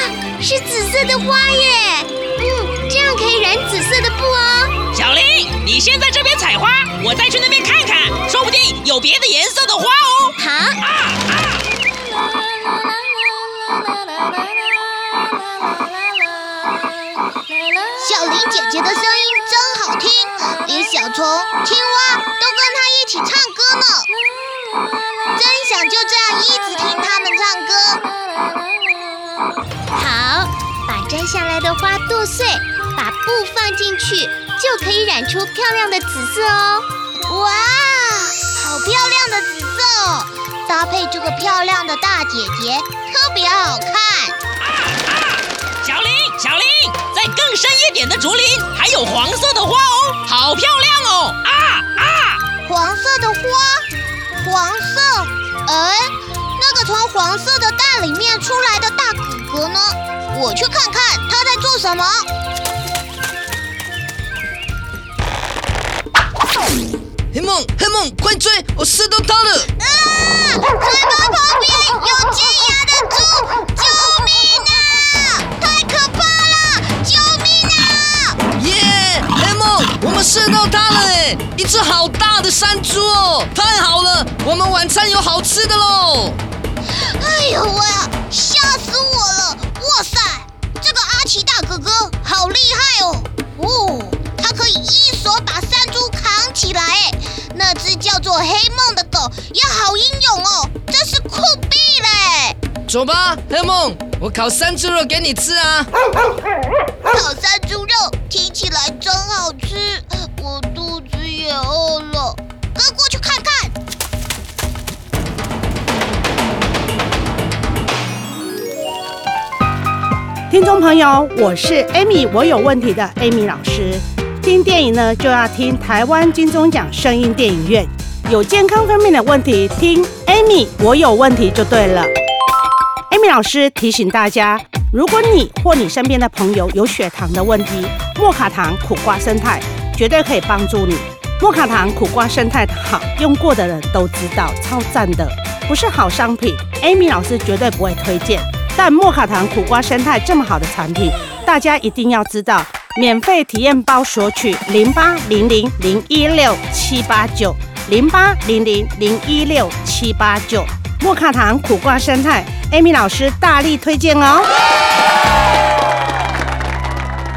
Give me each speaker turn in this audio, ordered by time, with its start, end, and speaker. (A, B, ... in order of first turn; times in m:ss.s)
0:00.8-0:01.0 A
0:02.4-0:04.2 B
0:04.9-0:10.4 C
0:18.0-0:24.1 B
0:25.3-0:28.0 B
0:30.0-0:36.8 A
0:33.3-0:34.5 B
0:37.3-0:44.4 B
0:45.1-0:52.4 C
0:52.6-0:53.8 B
0:54.4-1:02.3 B
1:07.3-1:09.7 D
1:09.8-1:18.4 B
1:18.6-1:26.4 D
1:27.0-1:42.6 B
1:42.9-1:45.9 D
1:47.1-1:53.7 B
2:00.5-2:12.1 E
2:13.1-2:44.5 E